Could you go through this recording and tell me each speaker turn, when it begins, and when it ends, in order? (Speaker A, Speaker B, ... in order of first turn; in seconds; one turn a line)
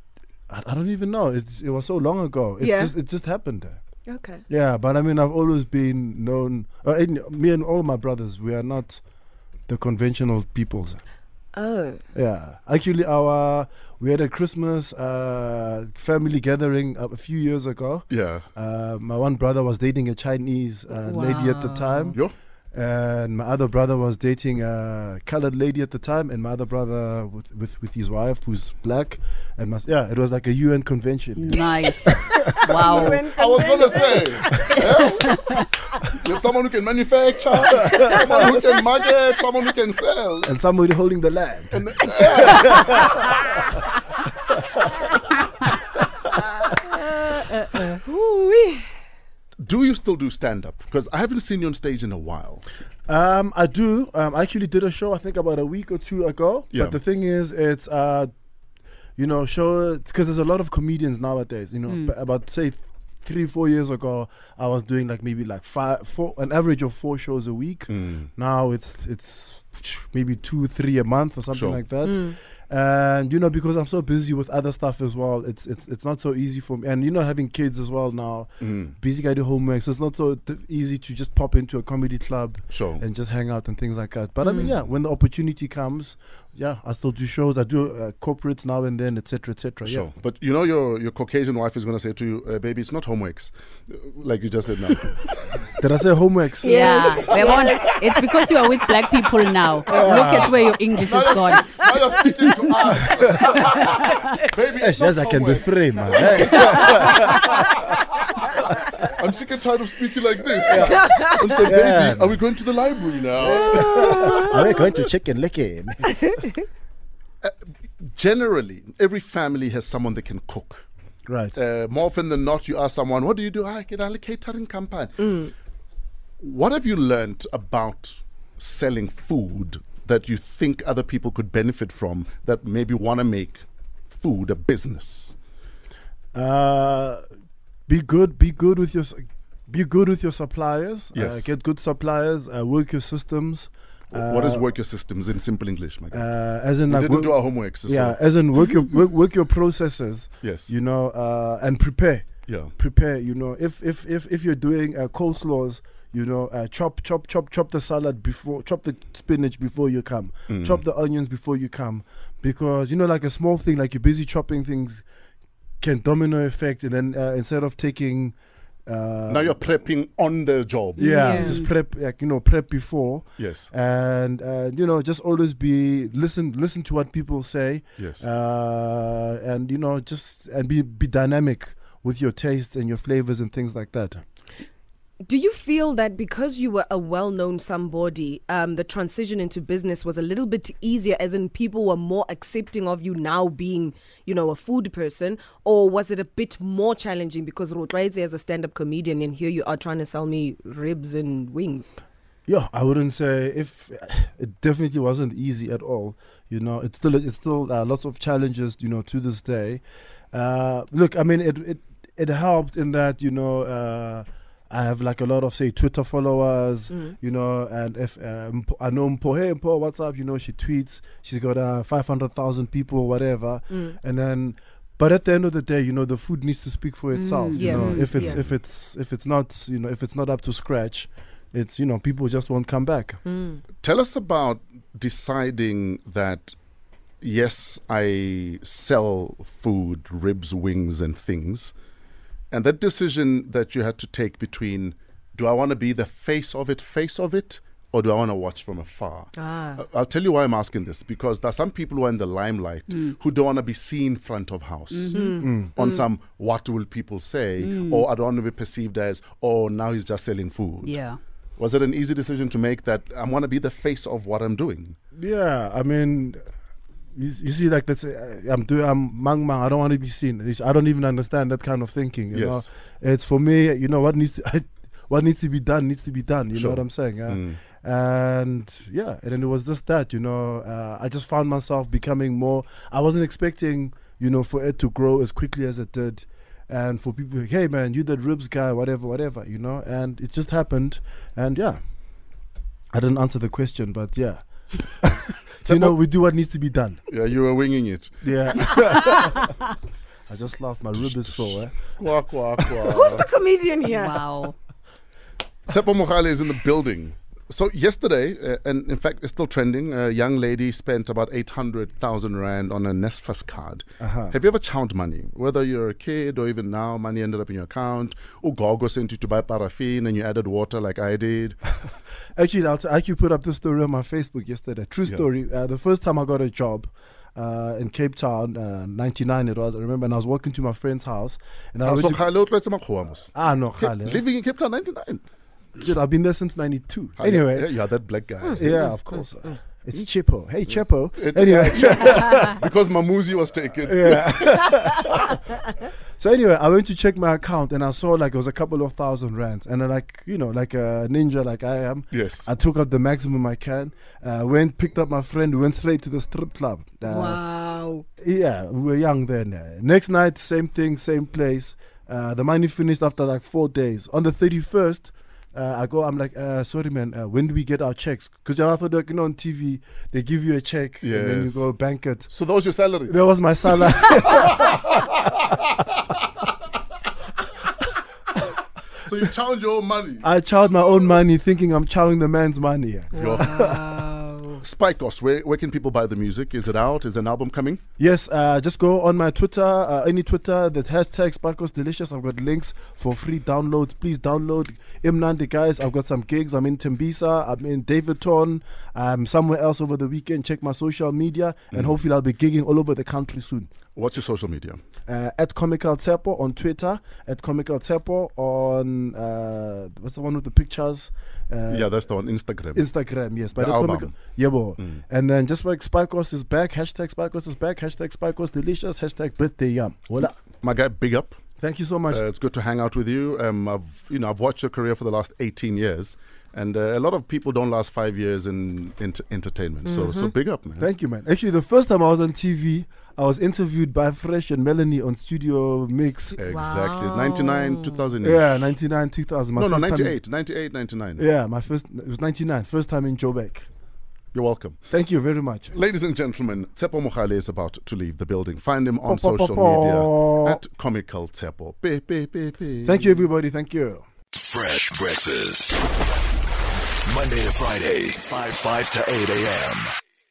Speaker A: 0.5-3.8
Speaker B: 2.6-2.9
Speaker B: 4.1-4.4
Speaker A: 4.5-9.0
Speaker A: 9.7-11.0
Speaker B: 11.5-12.0
Speaker A: 12.1-22.2
Speaker C: 18.1-18.4
Speaker B: 21.0-22.1
Speaker A: 22.7-32.5
Speaker D: 31.4-33.2
Speaker B: 32.5-34.7
Speaker C: 33.3-35.4
Speaker C: 36.1-40.5
Speaker A: 40.4-43.0
Speaker C: 41.7-43.1
Speaker B: 46.8-48.9
Speaker C: 49.6-52.6
Speaker A: 53.1-58.3
Speaker A: 59.2-90.1
Speaker C: 67.9-68.3
Speaker C: 71.5-71.8
Speaker B: 72.0-72.3
Speaker C: 78.6-79.0
Speaker C: 82.7-83.0
Speaker B: 84.4-84.7
Speaker C: 89.8-95.2
Speaker A: 95.8-97.2
Speaker D: 96.6-101.7
Speaker B: 96.6-98.0
Speaker A: 99.9-100.6
Speaker C: 101.0-107.7
Speaker A: 104.8-107.5
Speaker C: 109.0-114.6
Speaker A: 110.7-112.4
Speaker B: 110.8-111.6
Speaker A: 113.4-116.3
Speaker C: 117.4-120.8
Speaker A: 121.3-121.5
Speaker C: 121.5-125.4
Speaker B: 125.2-125.5
Speaker C: 126.4-133.6
Speaker C: 134.2-135.3
Speaker A: 136.3-137.2
Speaker A: 137.9-144.7
Speaker C: 141.1-141.5
Speaker C: 144.1-146.2
Speaker A: 146.1-165.0
Speaker C: 146.9-148.2
Speaker C: 150.4-150.7
Speaker C: 152.5-152.7
Speaker C: 160.5-160.8
Speaker A: 165.8-168.3
Speaker A: 168.9-169.6
Speaker C: 169.3-171.4
Speaker A: 171.0-184.2
Speaker B: 171.0-171.6
Speaker C: 173.4-173.7
Speaker C: 178.0-178.2
Speaker B: 185.2-201.9
Speaker A: 202.5-233.2
Speaker B: 223.7-223.9
Speaker D: 227.1-228.2
Speaker B: 227.6-228.4
Speaker C: 228.2-228.5
Speaker B: 233.2-233.6
Speaker C: 233.8-236.5
Speaker C: 237.2-241.7
Speaker C: 242.5-261.0
Speaker B: 249.4-249.8
Speaker D: 254.9-255.4
Speaker B: 255.1-256.0
Speaker A: 255.4-255.7
Speaker D: 257.6-258.1
Speaker D: 260.8-261.2
Speaker C: 261.6-265.0
Speaker A: 265.1-266.4
Speaker A: 267.1-291.8
Speaker C: 272.3-272.7
Speaker C: 276.5-277.6
Speaker A: 292.9-297.0
Speaker C: 295.6-296.0
Speaker C: 297.1-298.2
Speaker A: 298.2-299.5
Speaker A: 300.3-301.8
Speaker C: 300.9-303.2
Speaker B: 302.9-304.2
Speaker D: 303.8-304.5
Speaker C: 305.7-321.6
Speaker A: 314.0-314.3
Speaker A: 322.3-332.2
Speaker C: 331.8-335.2
Speaker A: 333.3-334.2
Speaker A: 335.8-337.8
Speaker C: 337.2-338.8
Speaker A: 338.5-342.6
Speaker B: 338.6-338.9
Speaker C: 341.1-344.8
Speaker A: 343.9-345.4
Speaker A: 346.2-357.4
Speaker C: 352.1-352.5
Speaker B: 357.1-358.0
Speaker A: 358.2-372.3
Speaker C: 371.0-371.7
Speaker C: 372.3-373.2
Speaker A: 373.1-374.8
Speaker C: 373.8-374.8
Speaker C: 379.0-380.2
Speaker A: 380.2-383.1
Speaker B: 383.1-384.6
Speaker C: 383.1-383.8
Speaker C: 384.6-387.8
Speaker A: 388.0-403.7
Speaker C: 403.9-404.8
Speaker A: 405.1-411.9
Speaker C: 411.7-412.8
Speaker A: 412.7-420.4
Speaker C: 413.5-414.1
Speaker C: 420.6-421.4
Speaker A: 421.6-422.2
Speaker C: 422.1-430.9
Speaker B: 429.8-430.3
Speaker A: 430.8-436.4
Speaker C: 436.4-438.8
Speaker B: 436.4-438.0
Speaker A: 438.2-440.2
Speaker C: 439.5-441.2
Speaker A: 441.2-443.7
Speaker C: 444.3-444.8
Speaker A: 444.9-445.7
Speaker C: 445.7-453.2
Speaker A: 449.0-450.6
Speaker A: 452.8-454.0
Speaker E: 454.3-455.8
Speaker E: 457.1-459.9